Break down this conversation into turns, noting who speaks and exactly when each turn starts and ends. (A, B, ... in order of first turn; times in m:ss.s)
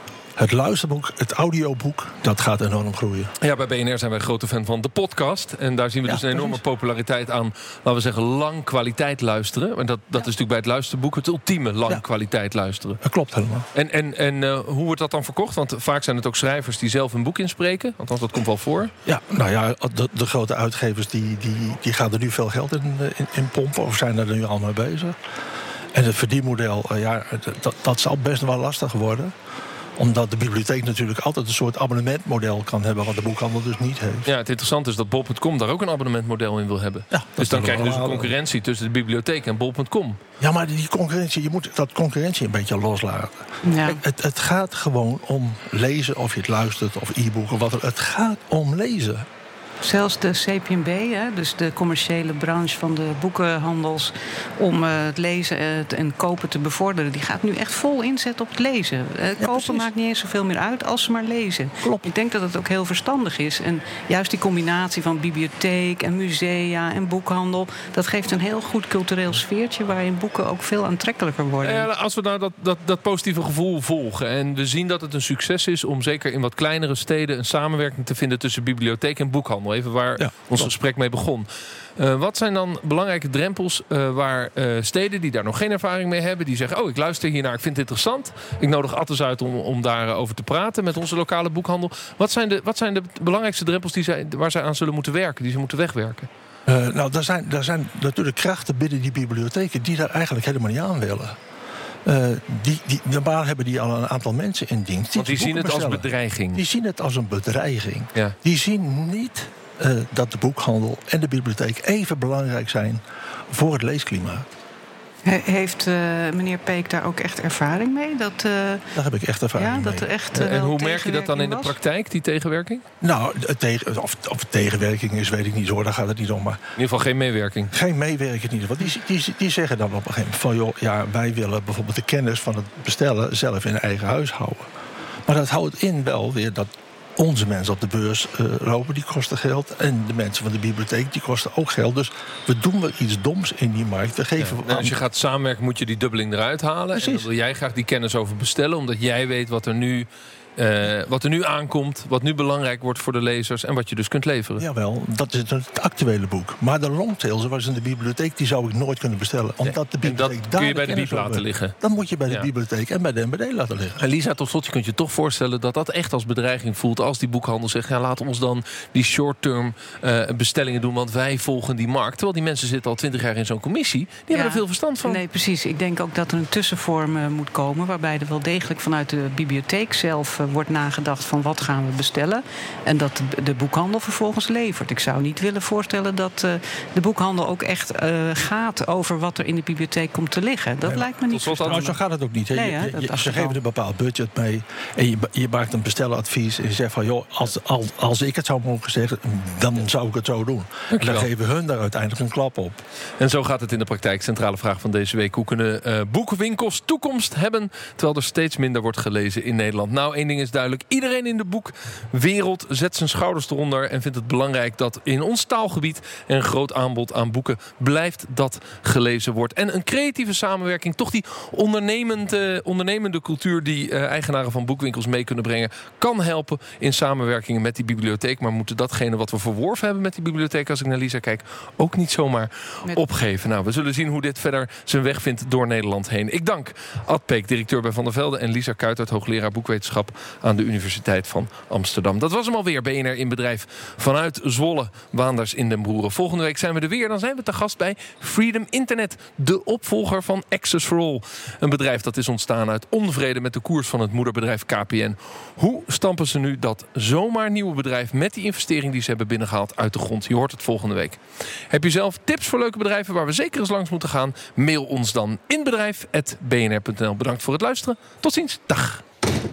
0:00.4-0:03.3 A
0:03.4-0:13.0 B
0:06.1-0:06.6 A
0:13.0-0:13.7 A
0:13.7-0:18.9 B
0:19.0-0:25.2 A
0:25.9-0:29.3 A
0:30.0-0:34.3 A
0:34.3-0:40.2 B
0:37.1-0:38.3 A
0:40.4-0:49.3 A
0:43.6-0:44.0 C
0:49.8-1:11.9 C
0:59.4-0:59.9 A
1:01.8-1:02.1 A
1:11.6-1:36.3 B
1:20.2-1:20.7 A
1:36.7-1:41.4 A
1:42.0-1:54.5 A
1:45.2-1:46.6 B
1:55.2-1:58.9 C
1:58.9-2:00.1 A
1:59.6-2:01.8 C
2:00.3-2:02.8 B
2:03.0-2:06.6 A
2:06.8-2:07.7 B
2:07.7-2:14.7 A
2:15.3-2:25.0 A
2:24.4-2:34.6 B
2:27.0-2:27.3 A
2:34.6-2:44.0 A
2:39.6-2:41.7 B
2:44.0-2:55.2 B
2:54.3-3:12.0 C
3:10.8-3:22.8 A
3:11.3-3:11.9 B
3:12.5-3:13.6 C
3:20.9-3:21.3 B
3:23.2-4:21.2 B
4:21.7-4:29.0 B